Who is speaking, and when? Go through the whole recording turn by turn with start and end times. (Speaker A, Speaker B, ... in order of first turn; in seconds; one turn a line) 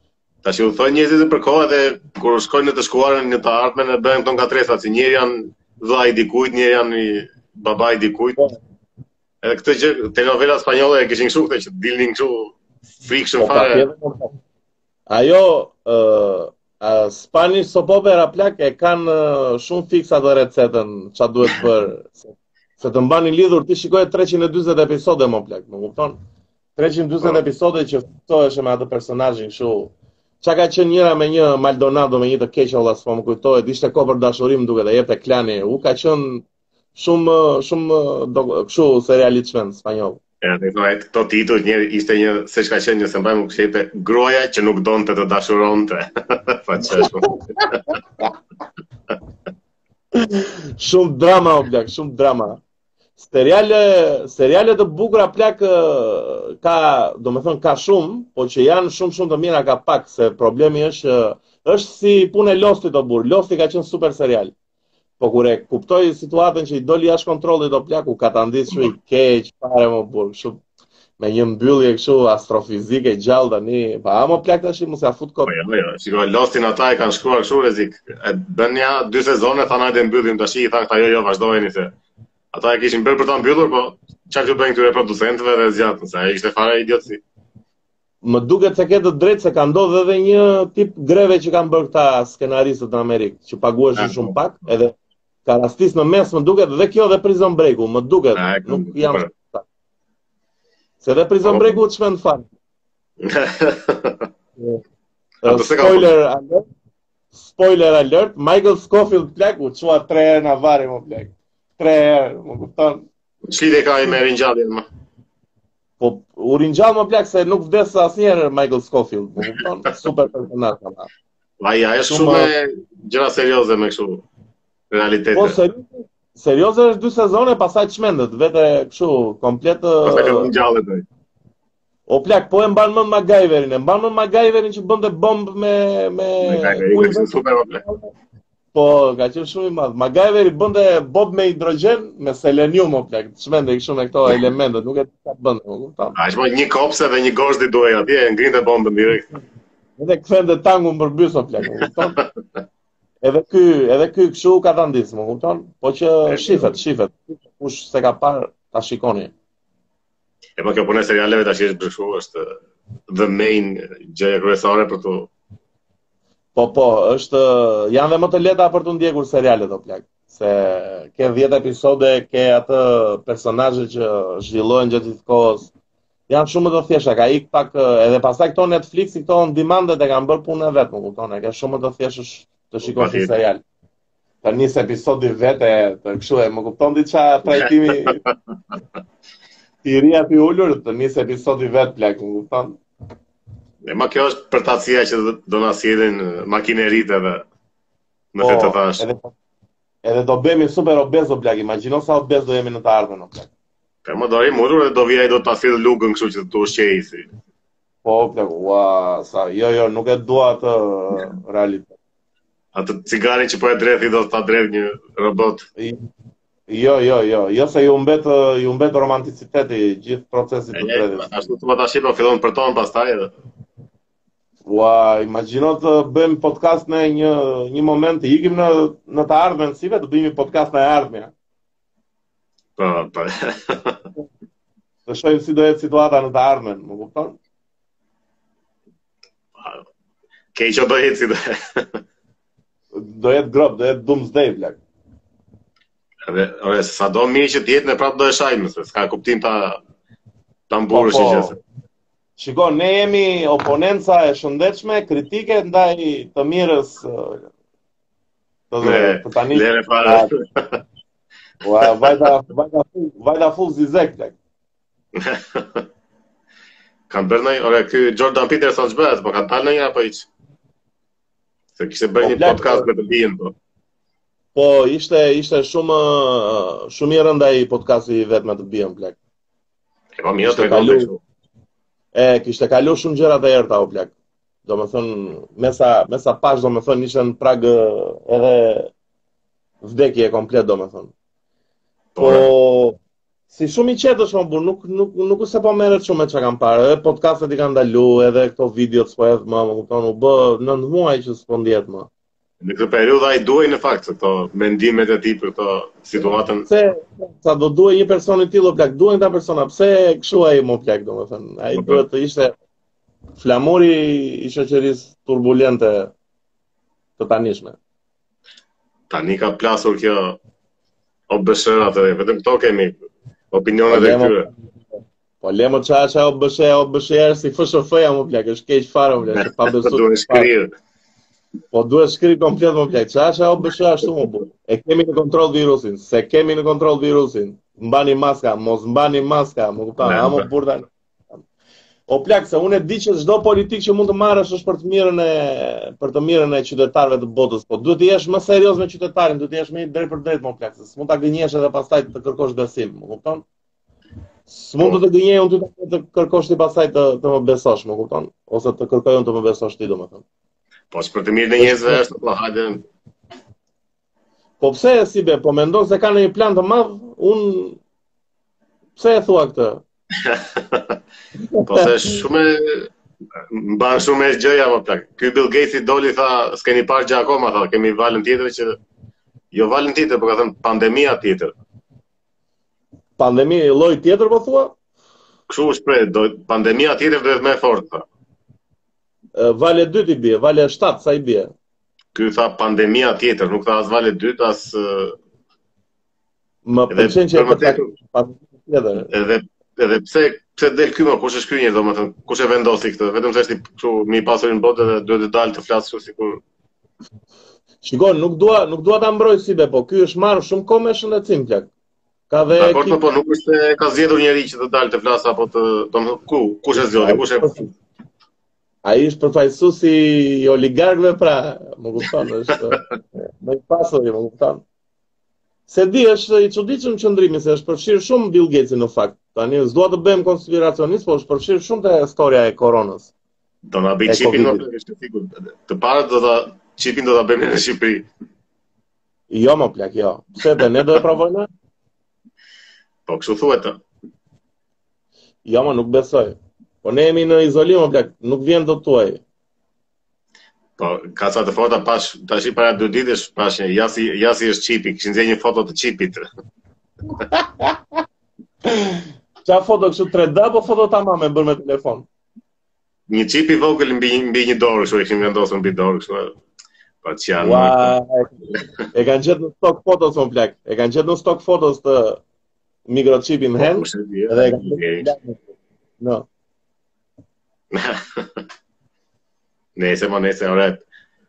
Speaker A: 0.4-8.4
Speaker A: 9.4-13.8
Speaker B: 13.4-14.3
Speaker B: 15.1-26.2
Speaker B: 26.8-40.2
Speaker A: 40.4-47.8
Speaker B: 47.0-47.6
Speaker B: 50.1-52.6
Speaker B: 53.2-64.5
Speaker B: 65.2-70.6
Speaker B: 71.2-75.5
Speaker A: 75.5-81.9
Speaker A: 82.5-87.2
Speaker B: 88.2-99.7
Speaker A: 94.0-94.3
Speaker A: 98.3-99.3
Speaker B: 101.0-102.4
Speaker A: 101.4-101.8
Speaker A: 103.2-104.3
Speaker B: 105.4-106.7
Speaker A: 105.5-106.1
Speaker B: 107.3-113.0
Speaker A: 113.4-114.8
Speaker B: 116.0-121.1
Speaker A: 121.6-124.2
Speaker B: 122.1-122.5
Speaker A: 124.9-125.6
Speaker B: 125.3-130.5
Speaker A: 130.0-131.0
Speaker B: 132.1-138.1
Speaker A: 136.4-137.8
Speaker B: 138.7-146.2
Speaker A: 146.1-149.3
Speaker B: 150.0-152.2
Speaker A: 151.7-152.2
Speaker B: 153.2-159.3
Speaker A: 156.3-156.8
Speaker A: 160.6-162.5
Speaker A: 163.1-165.3
Speaker B: 166.5-175.7
Speaker B: 176.3-183.6
Speaker A: 182.8-183.3
Speaker B: 184.4-188.2
Speaker A: 187.6-188.3
Speaker B: 189.8-192.8
Speaker A: 193.8-197.4
Speaker A: 198.3-199.0
Speaker B: 198.4-199.3
Speaker B: 200.0-203.5
Speaker A: 204.0-207.2
Speaker B: 208.0-211.9
Speaker A: 212.7-215.6
Speaker B: 216.7-221.3
Speaker A: 220.7-223.3
Speaker B: 224.7-231.3
Speaker A: 232.8-234.0
Speaker B: 235.1-237.4
Speaker A: 239.6-239.8
Speaker A: 240.5-242.0
Speaker B: 242.9-244.8
Speaker A: 246.2-249.8
Speaker A: 250.7-251.6
Speaker B: 250.9-251.6
Speaker B: 252.4-257.5
Speaker B: 258.7-260.3
Speaker A: 258.8-260.8
Speaker B: 261.6-264.4
Speaker A: 261.9-262.1
Speaker A: 265.1-265.8
Speaker A: 267.1-270.3
Speaker A: 271.8-273.5
Speaker B: 272.2-272.9
Speaker B: 274.5-279.2
Speaker A: 280.2-281.2
Speaker B: 280.4-281.1
Speaker B: 282.1-284.1
Speaker B: 284.6-288.9
Speaker B: 289.8-291.1
Speaker A: 292.1-292.5
Speaker B: 292.2-293.0
Speaker B: 293.5-302.1
Speaker A: 302.6-306.7
Speaker B: 306.2-312.5
Speaker A: 311.7-312.0
Speaker B: 313.4-316.1
Speaker B: 317.2-317.8
Speaker A: 319.1-320.4
Speaker A: 321.3-323.0
Speaker A: 323.5-324.5
Speaker B: 323.9-330.5
Speaker A: 329.3-330.7
Speaker B: 331.7-340.9
Speaker A: 340.0-340.4
Speaker B: 342.1-353.4
Speaker B: 354.5-360.2
Speaker A: 360.9-362.8
Speaker B: 361.6-362.1
Speaker B: 364.6-367.8
Speaker B: 368.9-369.8
Speaker A: 370.1-371.0
Speaker B: 371.5-372.2
Speaker A: 371.6-378.8
Speaker A: 379.5-381.5
Speaker B: 383.2-384.8
Speaker A: 385.5-388.1
Speaker B: 389.4-391.5
Speaker A: 392.1-395.2
Speaker B: 396.6-399.1
Speaker A: 396.9-397.9
Speaker A: 399.1-406.4
Speaker B: 407.8-411.7
Speaker B: 412.3-413.0
Speaker A: 412.6-417.6
Speaker B: 417.0-417.7
Speaker B: 418.8-424.6
Speaker B: 425.7-433.1
Speaker A: 433.6-438.1
Speaker B: 434.1-434.6
Speaker B: 439.3-441.5
Speaker A: 443.1-443.8
Speaker B: 445.4-449.2
Speaker A: 450.8-456.2
Speaker B: 457.1-457.8
Speaker B: 458.7-462.1
Speaker A: 463.1-466.4
Speaker A: 467.0-467.9
Speaker B: 467.4-468.4
Speaker B: 468.9-472.2
Speaker B: 472.9-475.4
Speaker A: 473.6-475.1
Speaker B: 476.0-476.2
Speaker A: 477.7-478.4
Speaker A: 479.8-480.8